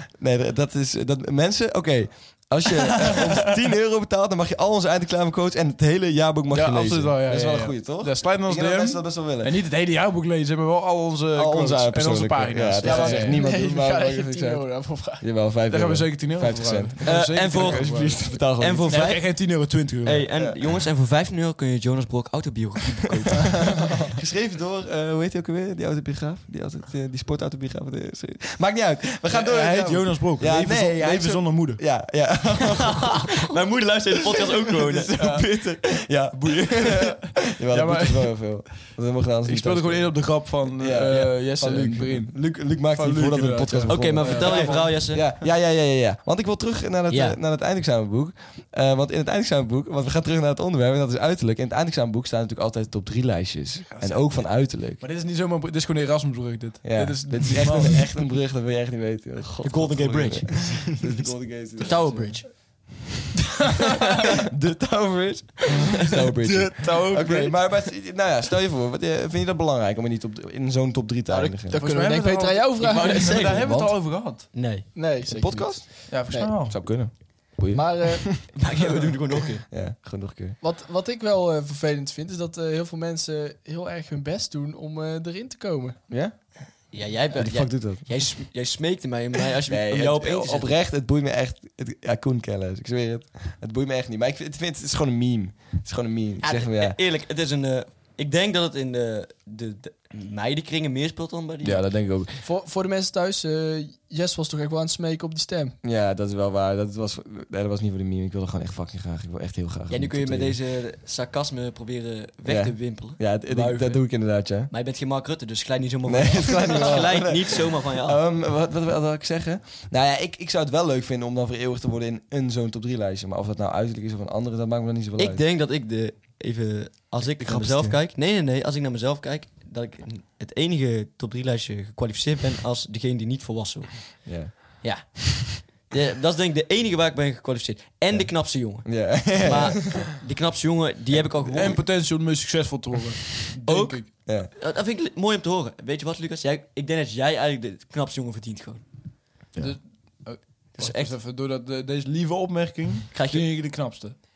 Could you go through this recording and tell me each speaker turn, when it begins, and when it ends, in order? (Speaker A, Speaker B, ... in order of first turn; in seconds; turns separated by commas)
Speaker A: 0.1-9.6, Speaker B: 6.5-13.4, Speaker A: 11.3-19.1, Speaker C: 12.8-15.2, Speaker B: 15.7-20.3, Speaker D: 17.0-23.7, Speaker A: 23.7-33.3, Speaker B: 29.3-31.9, Speaker D: 33.0-35.4, Speaker A: 34.8-55.0, Speaker B: 35.1-35.5, Speaker B: 37.2-38.9, Speaker B: 39.5-45.5, Speaker D: 43.9-45.3, Speaker D: 47.1-47.4, Speaker B: 53.9-58.2, Speaker A: 56.8-62.7, Speaker D: 59.6-61.0, Speaker D: 61.8-62.9, Speaker A: 64.5-71.8, Speaker B: 66.4-67.8, Speaker C: 71.3-73.8, Speaker B: 71.7-74.5, Speaker D: 72.8-74.9, Speaker C: 74.5-77.2, Speaker A: 75.3-78.7, Speaker B: 76.1-76.9, Speaker C: 77.7-78.3, Speaker D: 78.6-79.7, Speaker A: 79.7-80.6, Speaker C: 80.6-86.0, Speaker A: 86.1-88.4, Speaker D: 86.9-90.8, Speaker A: 89.7-97.0, Speaker D: 96.4-101.9, Speaker A: 101.6-102.4, Speaker C: 102.4-105.8, Speaker A: 105.8-110.6, Speaker D: 109.9-118.2, Speaker A: 112.5-114.7, Speaker A: 116.0-125.4, Speaker D: 125.2-141.8, Speaker A: 127.2-128.0, Speaker A: 134.3-135.1, Speaker A: 138.1-140.1, Speaker B: 141.5-144.1, Speaker D: 143.7-149.1, Speaker A: 144.3-144.5, Speaker A: 149.5-149.8, Speaker B: 149.6-154.2, Speaker D: 150.8-151.2, Speaker D: 153.1-153.6